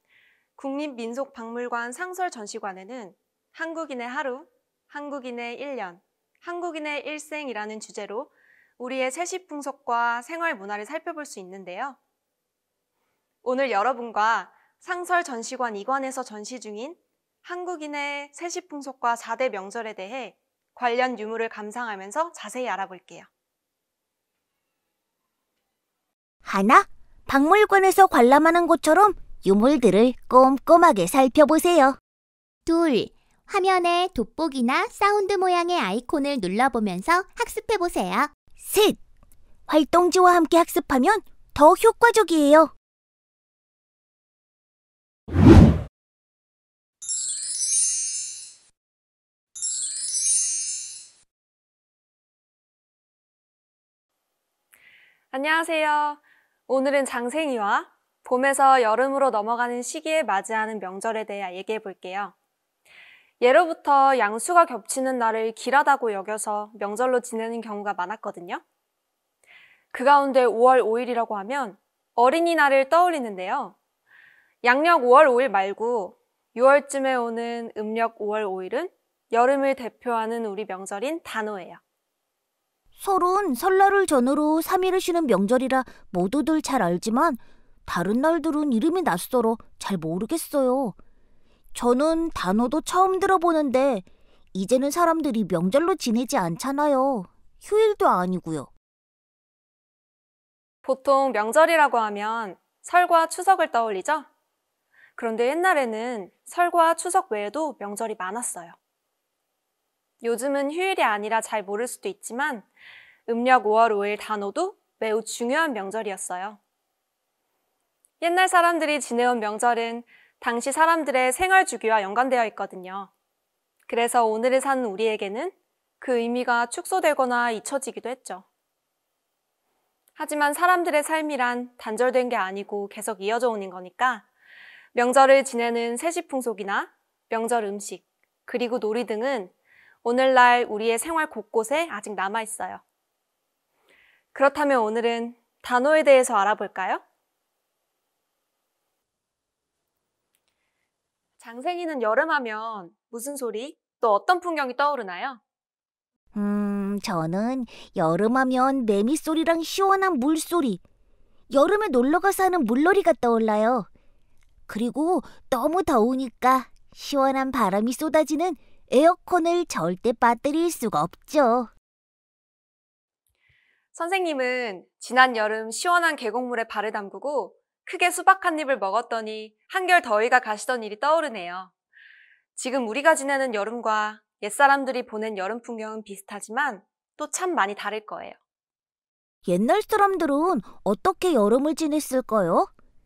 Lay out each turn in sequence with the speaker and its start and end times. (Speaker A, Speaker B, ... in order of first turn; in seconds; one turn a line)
Speaker A: 0.6-12.0
Speaker A: 13.4-23.3
Speaker B: 26.4-32.0
Speaker C: 32.7-38.3
Speaker B: 38.6-39.0
Speaker B: 39.7-42.7
Speaker A: 55.3-62.3
Speaker A: 63.4-68.6
Speaker A: 69.9-73.8
Speaker A: 74.6-81.8
Speaker B: 83.0-91.0
Speaker B: 91.7-98.7
Speaker A: 100.8-104.3
Speaker A: 105.2-108.8
Speaker A: 110.2-112.7
Speaker A: 113.3-116.6
Speaker A: 118.2-123.1
Speaker A: 123.9-128.5
Speaker A: 130.2-134.2
Speaker A: 134.9-139.5
Speaker A: 140.0-142.8
Speaker A: 144.3-147.0
Speaker A: 151.4-155.4
Speaker B: 156.3-160.8
Speaker B: 161.5-163.9
Speaker B: 164.7-171.7
Speaker A: 173.9-181.7
Speaker A: 182.6-188.3
Speaker B: 189.5-192.7